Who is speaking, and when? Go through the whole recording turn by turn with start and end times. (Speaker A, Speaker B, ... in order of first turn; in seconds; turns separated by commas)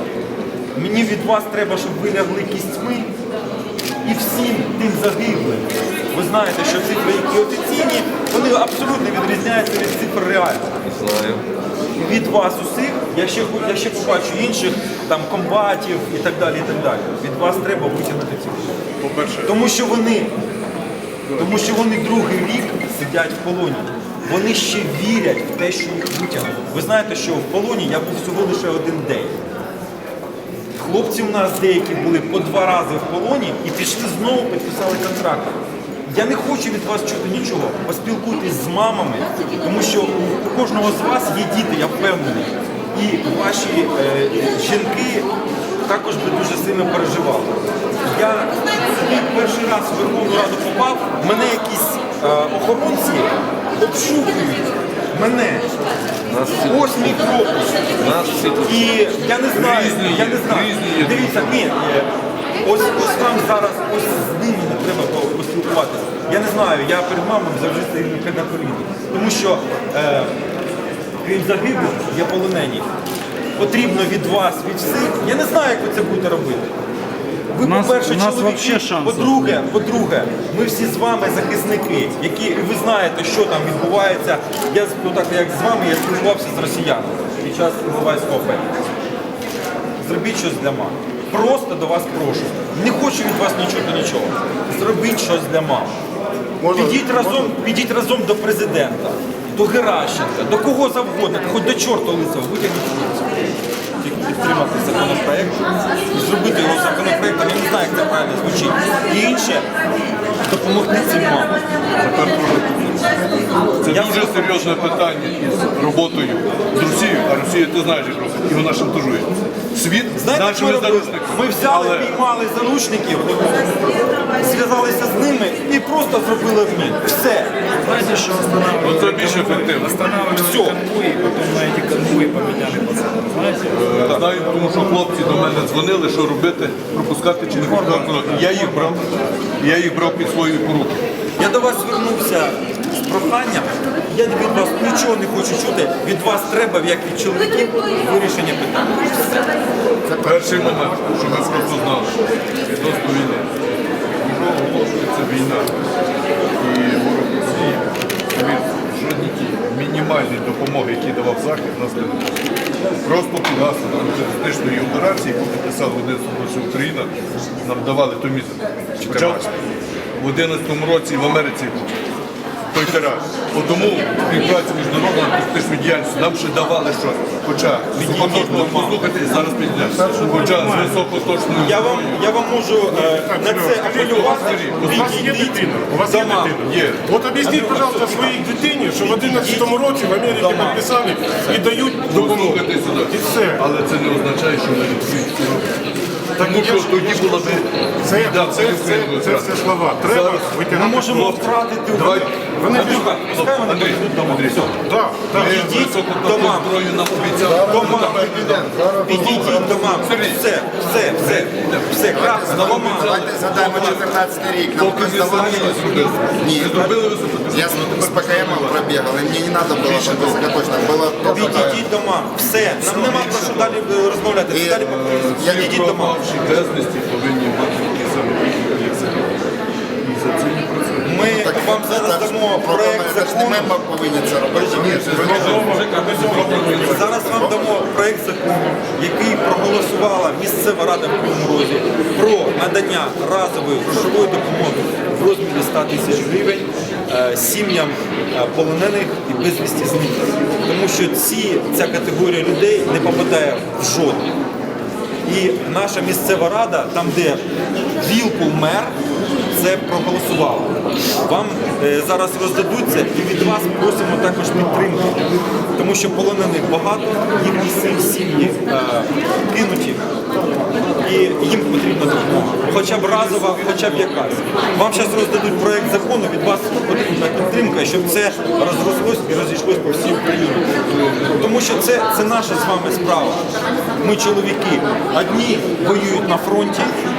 Speaker A: 0.8-3.1, Speaker A: 4.0-10.8, Speaker B: 10.8-11.4, Speaker A: 12.0-18.8, Speaker C: 19.0-19.5, Speaker A: 19.4-20.3, Speaker A: 21.4-29.4, Speaker A: 30.8-35.6, Speaker A: 36.1-45.3, Speaker A: 45.9-47.5, Speaker A: 48.0-55.7, Speaker B: 56.3-57.2, Speaker A: 56.5-57.9, Speaker B: 57.9-58.9, Speaker A: 58.6-62.1, Speaker D: 59.5-61.6, Speaker A: 62.6-70.3, Speaker A: 71.2-72.9, Speaker A: 73.6-76.7, Speaker A: 77.5-88.7, Speaker E: 77.6-79.6, Speaker A: 90.0-95.9, Speaker F: 96.6-97.1, Speaker A: 96.7-103.3, Speaker A: 104.0-109.7, Speaker A: 110.5-111.6, Speaker D: 112.0-113.0, Speaker A: 113.8-115.1, Speaker D: 113.8-122.1, Speaker A: 120.2-123.8, Speaker A: 124.3-127.5, Speaker E: 127.8-133.9, Speaker D: 128.8-130.0, Speaker A: 130.3-130.8, Speaker D: 133.7-141.0, Speaker A: 137.6-138.9, Speaker A: 141.4-149.4, Speaker F: 150.1-150.9, Speaker D: 150.2-152.2, Speaker D: 152.7-153.5, Speaker D: 154.2-155.7, Speaker D: 156.6-162.4, Speaker D: 163.0-169.5, Speaker D: 170.2-171.9, Speaker D: 172.7-182.2, Speaker A: 177.9-179.0, Speaker E: 180.1-180.9, Speaker A: 181.6-186.6, Speaker C: 182.9-193.6, Speaker D: 184.0-185.2, Speaker D: 186.6-187.1, Speaker A: 187.4-190.8, Speaker D: 192.0-195.8, Speaker D: 196.4-204.7, Speaker C: 196.4-201.4, Speaker A: 200.7-204.7, Speaker C: 202.6-203.0, Speaker C: 204.8-205.9, Speaker D: 205.3-210.4, Speaker A: 205.3-206.8, Speaker A: 207.3-214.0, Speaker D: 211.2-214.2, Speaker F: 212.1-221.9, Speaker D: 214.7-218.9, Speaker A: 215.6-216.0, Speaker D: 219.7-220.5, Speaker A: 221.3-226.2, Speaker D: 221.3-221.8, Speaker D: 222.7-223.8, Speaker F: 224.5-225.7, Speaker D: 224.8-229.3, Speaker D: 230.0-231.3, Speaker A: 231.0-233.8, Speaker F: 231.2-235.6, Speaker A: 234.5-254.2, Speaker D: 234.8-237.5, Speaker C: 235.4-236.9, Speaker A: 255.2-257.4, Speaker A: 258.0-258.9, Speaker A: 259.5-265.2, Speaker A: 265.8-270.0, Speaker A: 271.0-280.7, Speaker D: 272.7-274.1, Speaker D: 280.7-281.6, Speaker A: 281.3-283.4, Speaker A: 284.0-287.0